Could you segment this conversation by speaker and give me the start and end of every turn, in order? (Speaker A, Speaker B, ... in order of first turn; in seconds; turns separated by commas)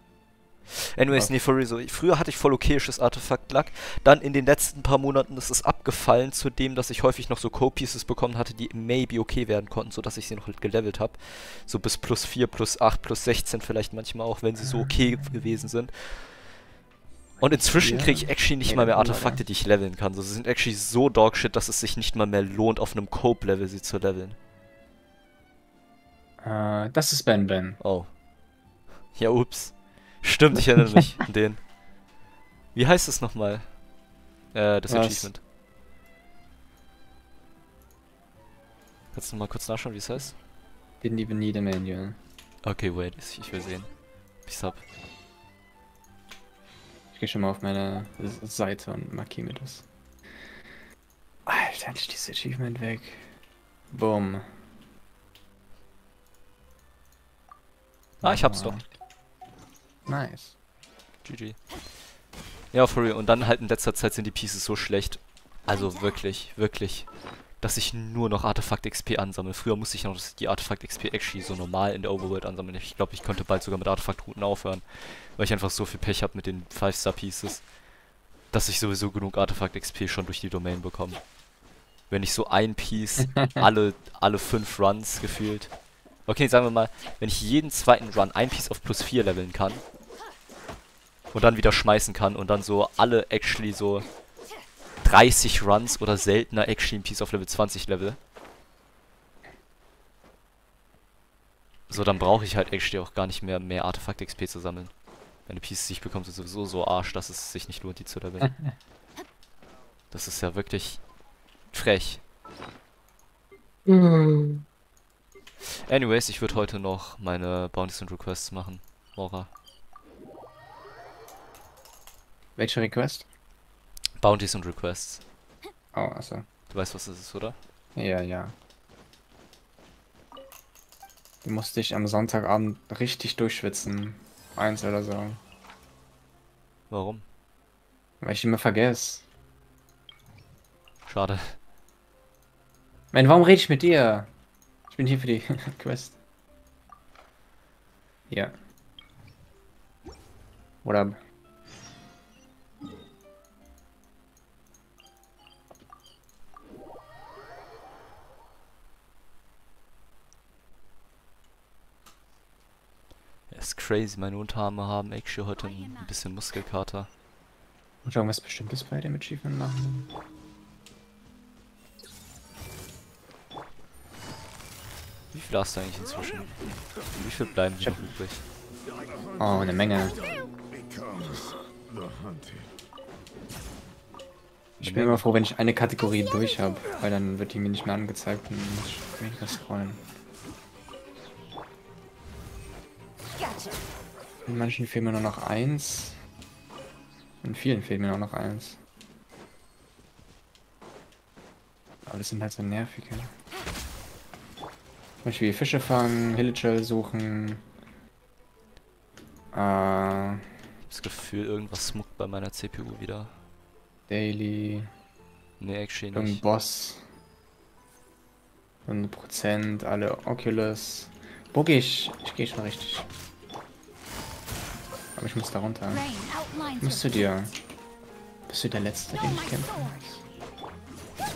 Speaker A: 0.9-16.4, Speaker A: 17.4-24.4, Speaker B: 17.8-19.4, Speaker B: 26.4-27.8, Speaker A: 27.8-28.1, Speaker A: 29.1-31.6, Speaker A: 32.7-33.8, Speaker A: 34.5-35.4, Speaker B: 34.9-35.3, Speaker A: 39.1-40.4, Speaker B: 41.0-42.2, Speaker A: 42.6-44.8, Speaker B: 47.1-49.9, Speaker B: 51.5-53.3, Speaker B: 53.9-54.5, Speaker B: 58.2-58.8, Speaker A: 58.2-58.8, Speaker B: 60.0-60.5, Speaker A: 61.2-61.6, Speaker A: 62.7-67.1, Speaker A: 67.6-77.7, Speaker A: 78.5-81.2, Speaker A: 82.1-85.7, Speaker A: 86.2-89.8, Speaker A: 91.3-94.1, Speaker A: 95.0-98.2, Speaker A: 101.9-104.9, Speaker A: 105.5-108.6, Speaker B: 108.4-108.7, Speaker A: 110.1-111.0, Speaker A: 111.7-112.2, Speaker B: 113.9-114.6, Speaker A: 115.8-119.5, Speaker B: 122.6-123.2, Speaker A: 124.2-125.2, Speaker B: 125.9-126.4, Speaker A: 126.7-127.6, Speaker B: 128.0-128.5, Speaker B: 131.4-135.4, Speaker A: 136.9-137.2, Speaker B: 138.2-139.2, Speaker A: 141.1-141.6, Speaker B: 143.1-144.3, Speaker B: 144.9-146.2, Speaker B: 148.3-148.5, Speaker B: 150.8-151.2, Speaker A: 163.5-167.1, Speaker B: 168.0-170.1, Speaker A: 175.3-178.4, Speaker B: 179.4-180.2, Speaker A: 184.8-185.2, Speaker B: 184.8-190.0, Speaker B: 194.4-196.2, Speaker B: 197.4-198.8, Speaker B: 202.1-203.3, Speaker B: 205.2-207.6, Speaker B: 209.5-210.4, Speaker A: 210.9-213.4, Speaker B: 214.1-214.9, Speaker A: 215.6-216.4, Speaker B: 216.1-217.1, Speaker B: 218.8-223.1, Speaker B: 225.2-226.2, Speaker B: 226.8-227.5, Speaker B: 228.5-230.2